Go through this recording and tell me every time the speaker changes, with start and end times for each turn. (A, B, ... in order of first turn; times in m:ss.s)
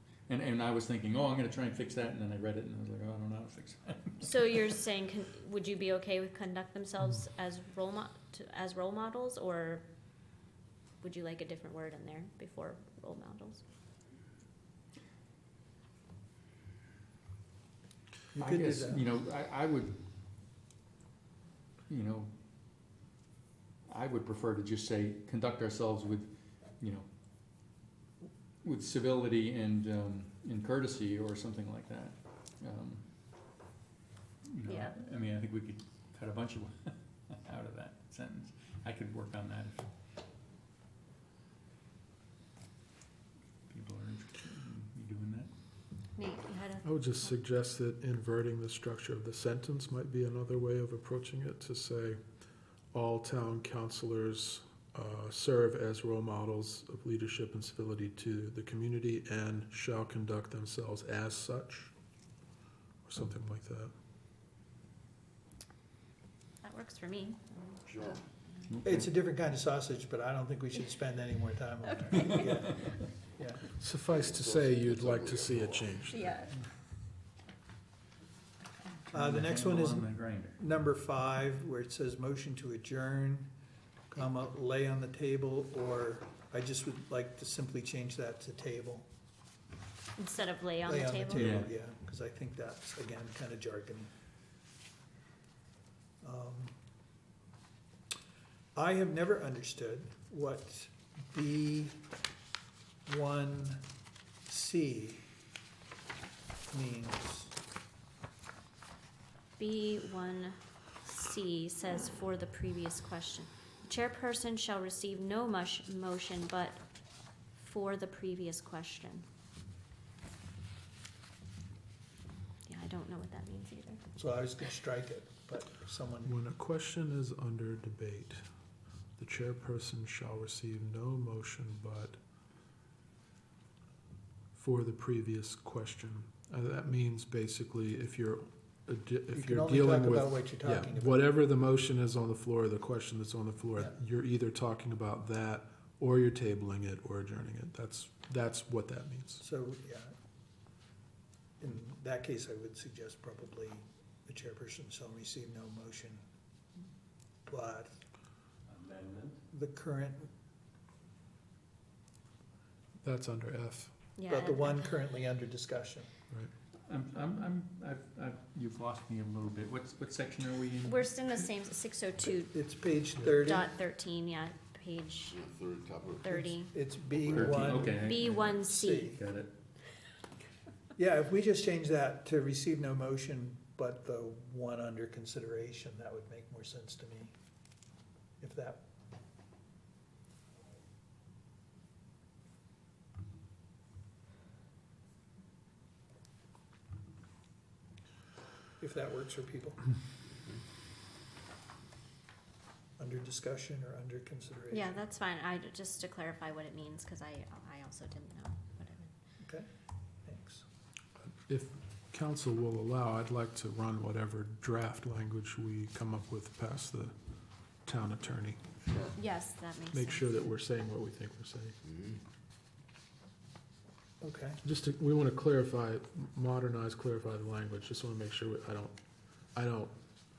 0:00.3-0:04.6 A
0:04.2-0:09.9 B
0:11.0-0:13.6 B
0:18.3-0:19.1 C
0:18.4-0:20.0 A
0:21.9-0:22.3 A
0:23.9-0:27.1 A
0:28.6-0:33.0 A
0:34.4-0:39.9 A
0:34.7-0:35.0 B
0:43.7-0:45.5 A
0:46.2-0:47.3 B
0:46.8-0:52.2 D
0:52.9-1:01.9 D
1:03.0-1:03.9 D
1:06.6-1:08.2 B
1:07.9-1:08.2 E
1:08.7-1:09.1 A
1:08.8-1:13.7 C
1:11.8-1:12.7 B
1:13.8-1:16.2 D
1:14.1-1:16.0 E
1:16.1-1:16.5 B
1:19.1-1:20.6 A
1:19.1-1:23.5 C
1:24.1-1:29.1 C
1:30.2-1:31.6 B
1:30.9-1:34.1 C
1:31.3-1:31.7 A
1:36.2-1:36.7 C
1:38.8-1:42.0 C
1:43.1-1:43.8 C
1:44.5-1:45.2 C
1:46.7-1:47.5 C
1:49.6-1:56.8 B
1:57.6-1:59.2 B
2:02.7-2:04.0 B
2:04.2-2:06.4 C
2:06.2-2:08.4 D
2:09.2-2:12.2 D
2:14.6-2:29.4 D
2:19.3-2:21.3 C
2:29.4-2:30.1 C
2:31.6-2:36.2 C
2:37.5-2:38.0 C
2:38.7-2:39.4 A
2:39.5-2:40.3 C
2:43.0-2:43.9 D
2:44.2-2:44.9 B
2:44.3-2:46.1 C
2:46.9-2:51.0 A
2:50.8-2:52.6 B
2:52.5-2:53.7 C
2:53.3-2:55.4 B
2:55.3-2:56.4 E
2:56.2-2:56.7 B
2:56.2-2:59.2 C
2:57.2-2:58.0 E
2:57.3-2:58.4 A
2:57.9-2:59.1 B
2:59.2-2:59.5 A
3:01.0-3:07.3 C
3:08.4-3:08.8 C
3:18.8-3:19.8 C
3:23.0-3:25.0 C
3:24.7-3:29.1 B
3:29.4-3:29.7 C
3:30.2-3:30.6 C
3:31.5-3:37.2 D
3:37.8-3:38.7 D
3:39.2-3:40.3 B
3:39.9-3:41.8 D
3:41.9-3:42.2 E
3:44.2-3:44.6 C
3:44.6-3:49.0 D
3:49.5-3:49.9 D